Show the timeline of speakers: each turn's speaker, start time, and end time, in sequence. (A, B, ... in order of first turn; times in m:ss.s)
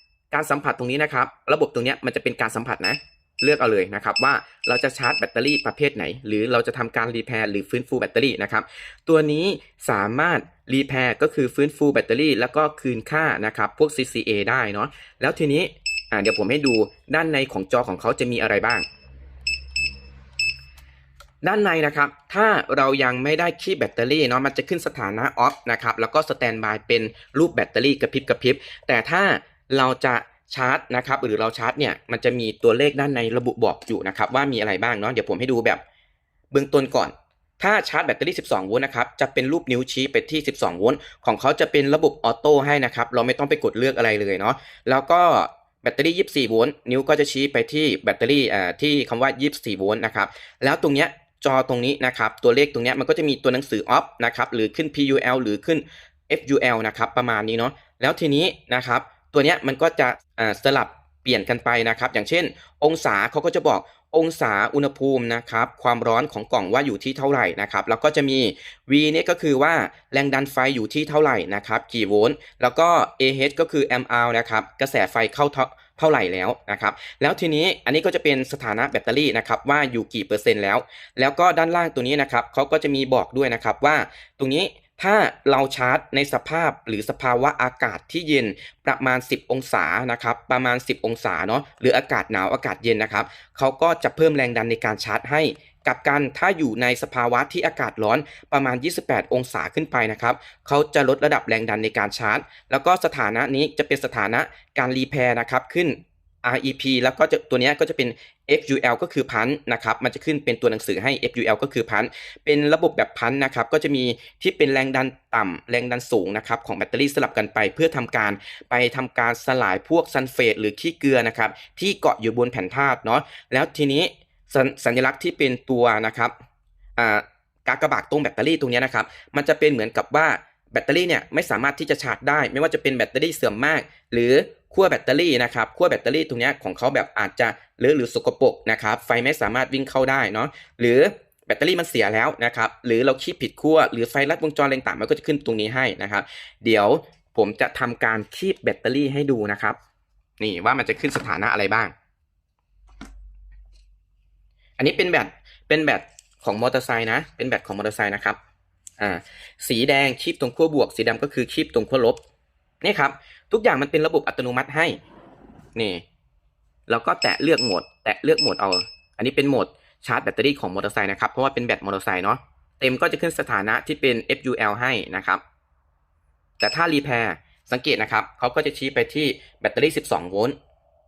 0:00.3-0:18.8 A
0:21.4-0:35.8 A
0:36.5-2:06.3 A
2:07.0-2:29.8 A
2:30.4-2:31.9 A
2:34.8-2:38.4 A
2:39.0-2:42.2 A
2:42.8-2:45.0 A
2:45.8-2:46.0 A
2:46.9-2:55.4 A
2:56.6-3:00.6 A